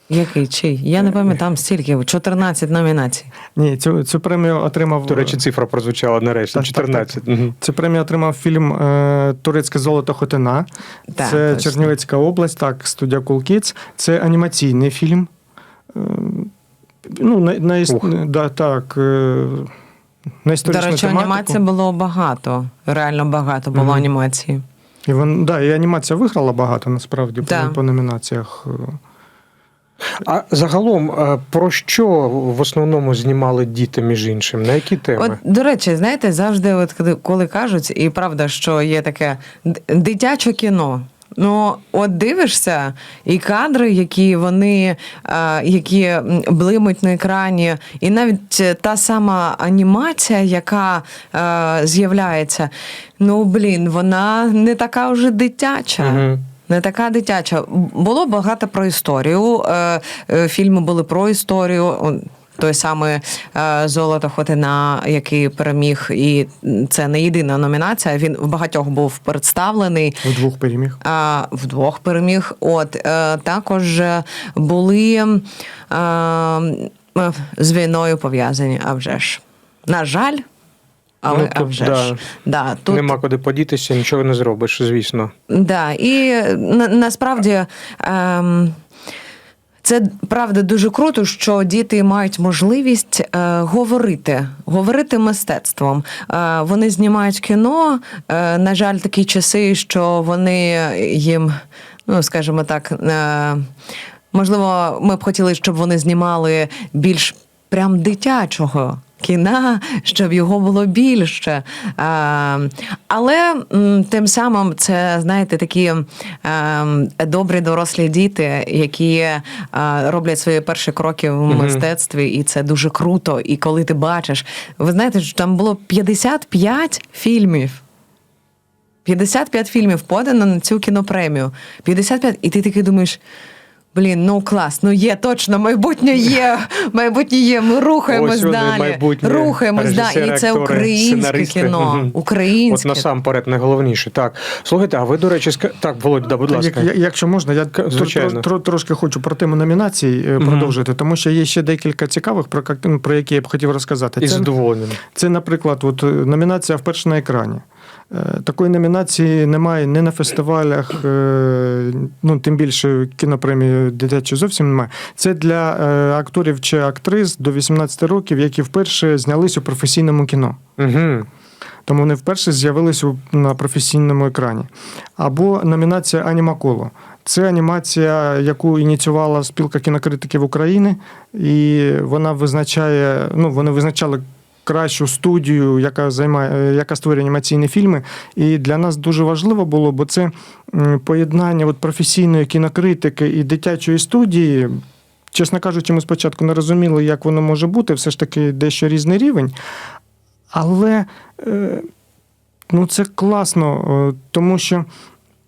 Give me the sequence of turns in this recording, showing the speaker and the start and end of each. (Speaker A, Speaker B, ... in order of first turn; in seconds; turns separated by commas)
Speaker A: 0.1-3.3, Speaker B: 3.6-5.4, Speaker C: 5.1-7.5, Speaker B: 6.5-10.7, Speaker A: 11.1-11.9, Speaker B: 11.2-15.3, Speaker B: 15.9-16.5, Speaker B: 17.1-19.7, Speaker B: 20.4-21.6, Speaker A: 20.6-24.6, Speaker B: 25.1-29.0, Speaker A: 27.4-27.8, Speaker C: 30.2-35.4, Speaker A: 35.2-70.2, Speaker C: 56.0-56.4, Speaker B: 70.2-71.0, Speaker A: 71.0-80.5, Speaker A: 81.2-83.2, Speaker C: 81.3-82.2, Speaker C: 82.9-85.3, Speaker A: 85.5-88.8, Speaker A: 89.8-103.7, Speaker A: 104.3-127.8, Speaker C: 121.5-121.8, Speaker A: 129.1-133.2, Speaker A: 133.9-143.1, Speaker C: 138.1-142.2, Speaker C: 142.7-146.9, Speaker B: 146.5-154.5, Speaker C: 147.7-148.4, Speaker C: 150.4-150.7, Speaker C: 154.2-155.0, Speaker B: 155.0-170.6, Speaker C: 170.8-171.3, Speaker B: 171.9-194.8, Speaker B: 195.3-199.6, Speaker B: 200.5-201.9, Speaker B: 202.7-204.9